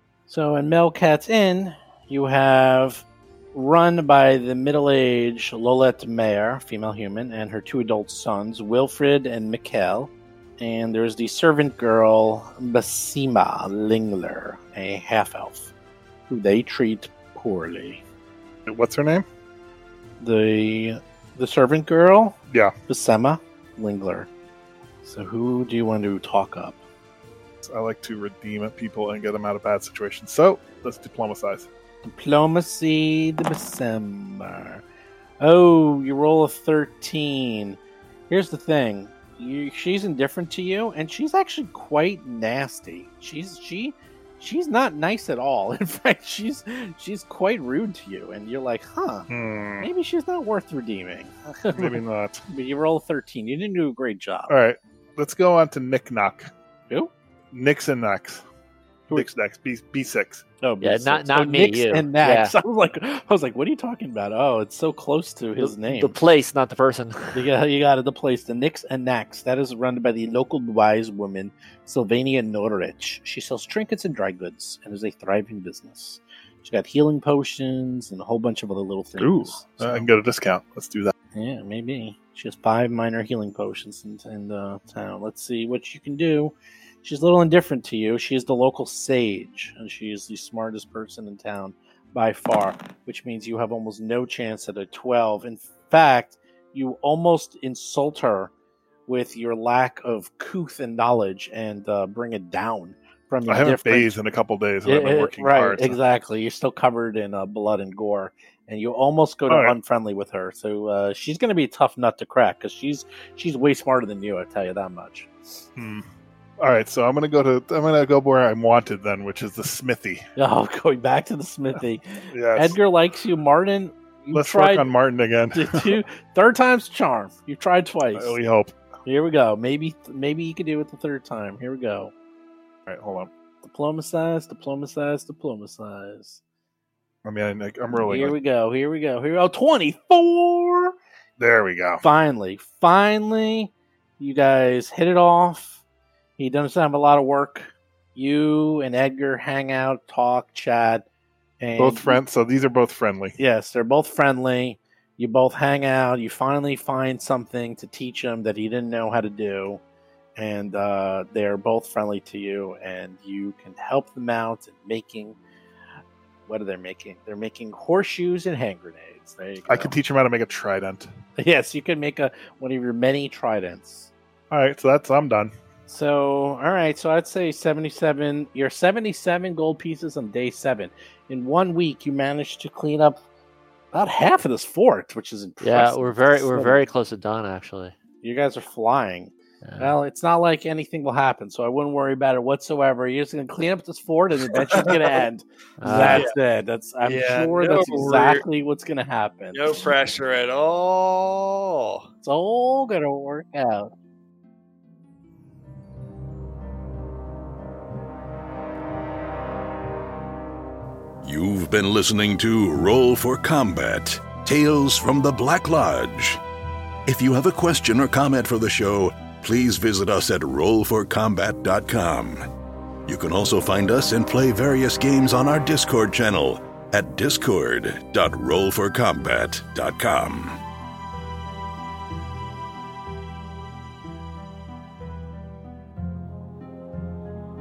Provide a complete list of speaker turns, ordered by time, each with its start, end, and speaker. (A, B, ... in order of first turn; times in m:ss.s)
0:00.3-0:15.7 A
0:16.3-0:18.0 A
0:18.7-0:19.2 B
0:20.2-0:22.4 A
0:22.9-0:24.3 A
0:25.0-0:26.8 A
0:27.6-0:31.7 B
0:32.0-0:34.8 A
0:35.4-0:37.8 A
0:38.3-0:49.3 A
0:49.3-0:49.9 B
0:49.8-0:54.5 A
0:51.7-0:52.4 B
0:54.5-0:56.5 B
0:57.5-0:58.4 B
0:59.1-1:00.4 B
1:00.6-1:06.2 A
1:00.8-1:02.6 C
1:05.6-1:07.4 C
1:07.3-1:20.1 A
1:19.2-1:21.1 B
1:21.4-1:38.5 A
1:39.1-1:44.2 A
1:43.5-1:46.0 B
1:44.8-1:55.6 A
1:49.5-1:49.8 B
1:55.8-1:56.0 B
1:56.6-2:00.2 B
2:00.4-2:04.9 A
2:02.3-2:02.8 B
2:04.3-2:06.0 B
2:05.5-2:08.4 A
2:08.2-2:08.7 B
2:09.1-2:12.1 A
2:12.9-2:13.3 B
2:13.6-2:16.4 A
2:17.2-2:18.4 B
2:17.9-2:20.9 A
2:21.4-2:22.0 B
2:22.0-2:25.8 A
2:26.4-2:31.1 A
2:31.6-2:32.2 A
2:31.8-2:33.4 B
2:33.4-2:39.8 A
2:40.4-2:45.4 A
2:46.5-2:49.9 A
2:49.7-2:51.1 B
2:51.4-2:54.1 A
2:54.5-2:55.5 B
2:55.9-3:03.2 A
3:03.9-3:06.9 A
3:05.6-3:07.9 C
3:08.2-3:19.9 A
3:09.6-3:09.9 C
3:14.7-3:15.2 D
3:15.8-3:16.3 C
3:16.0-3:16.3 D
3:17.0-3:18.4 D
3:19.5-3:22.1 D
3:22.2-3:23.9 A
3:31.2-3:36.4 E
3:37.1-3:42.5 E
3:43.1-3:50.6 E